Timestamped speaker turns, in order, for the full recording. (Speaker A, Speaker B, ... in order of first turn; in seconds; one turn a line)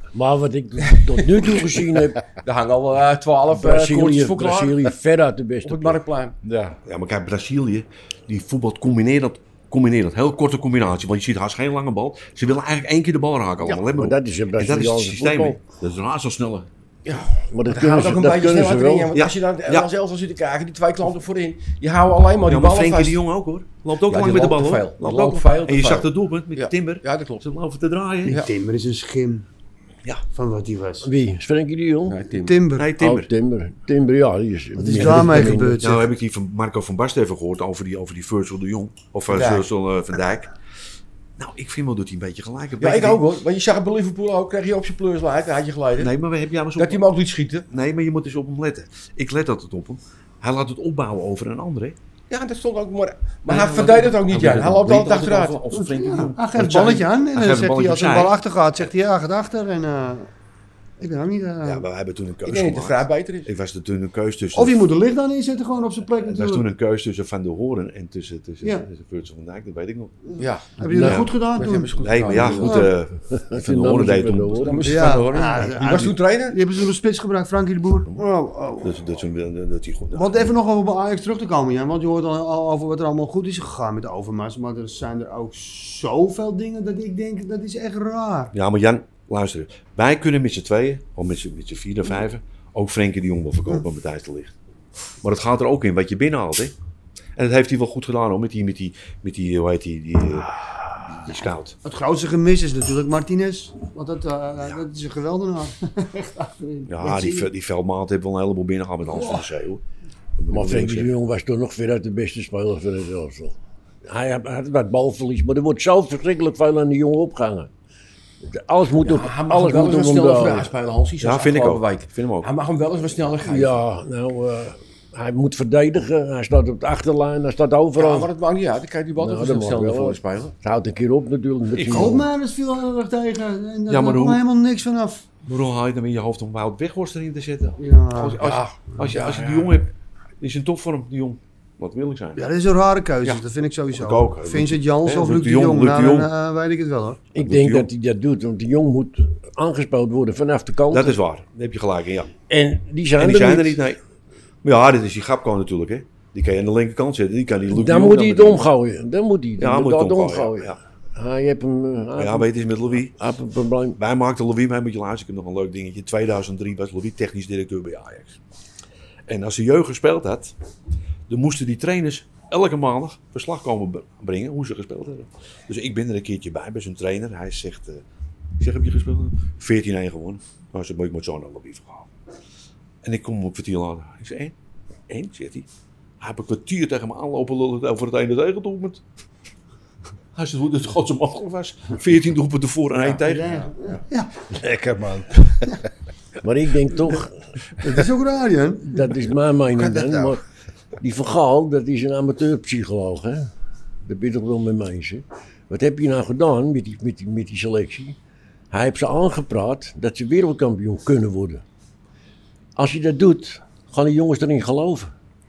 Speaker A: 0.1-2.2
Speaker B: 2.4-4.8
Speaker A: 3.5-6.0
Speaker B: 5.6-6.3
Speaker C: 6.4-6.8
Speaker D: 6.8-16.7
Speaker A: 13.6-15.6
Speaker B: 17.0-23.2
Speaker A: 17.5-19.1
Speaker D: 19.1-19.9
Speaker D: 22.4-28.4
Speaker B: 24.1-27.4
Speaker E: 28.3-29.4
Speaker E: 30.3-31.1
Speaker A: 31.0-32.2
Speaker B: 32.1-32.6
Speaker E: 32.3-32.9
Speaker D: 32.7-33.3
Speaker A: 33.0-35.8
Speaker E: 34.8-36.0
Speaker D: 35.8-40.5
Speaker B: 39.3-39.7
Speaker D: 41.4-43.2
Speaker B: 42.8-46.1
Speaker D: 46.0-47.0
Speaker B: 46.8-47.6
Speaker D: 47.7-52.0
Speaker B: 52.3-55.6
Speaker D: 53.5-58.4
Speaker E: 55.7-60.3
Speaker E: 61.0-61.8
Speaker D: 61.6-64.8
Speaker B: 62.4-63.5
Speaker E: 64.5-66.7
Speaker D: 66.3-70.2
Speaker E: 70.3-72.9
Speaker B: 70.4-72.8
Speaker A: 70.9-71.3
Speaker D: 71.0-71.3
Speaker D: 72.0-74.8
Speaker A: 72.7-75.1
Speaker B: 74.6-76.6
Speaker E: 74.8-79.0
Speaker D: 78.8-80.5
Speaker E: 80.1-88.5
Speaker D: 88.5-94.5
Speaker D: 95.2-96.7
Speaker D: 97.3-101.8
Speaker E: 101.8-107.5
Speaker D: 106.9-109.8
Speaker E: 109.1-109.4
Speaker D: 110.4-111.1
Speaker A: 110.5-113.5
Speaker A: 114.0-117.7
Speaker A: 118.4-120.7
Speaker B: 119.0-123.8
Speaker D: 121.2-122.5
Speaker A: 123.4-128.3
Speaker B: 128.0-130.5
Speaker A: 129.2-132.3
Speaker D: 131.7-132.2
Speaker E: 131.8-135.2
Speaker D: 133.9-134.4
Speaker D: 135.4-139.9
Speaker E: 137.8-138.6
Speaker B: 138.4-139.5
Speaker D: 140.4-142.4
Speaker E: 142.3-147.2
Speaker D: 143.9-146.3
Speaker A: 147.3-151.2
Speaker D: 147.4-147.9
Speaker D: 150.9-152.3
Speaker A: 152.5-153.8
Speaker D: 153.2-154.0
Speaker D: 154.6-158.7
Speaker A: 157.7-164.0
Speaker D: 159.6-160.8
Speaker D: 162.2-163.2
Speaker D: 164.0-168.4
Speaker D: 169.3-170.5
Speaker D: 171.3-178.0
Speaker D: 178.6-182.1
Speaker D: 183.0-184.5
Speaker D: 185.1-185.7
Speaker D: 186.2-189.0
Speaker D: 190.3-193.7
Speaker E: 193.2-194.3
Speaker C: 194.5-195.8
Speaker A: 196.4-198.0
Speaker E: 197.8-199.1
Speaker A: 198.8-200.4
Speaker C: 199.7-200.4
Speaker A: 201.0-203.5
Speaker A: 204.0-208.2
Speaker A: 208.7-211.6
Speaker A: 212.8-215.1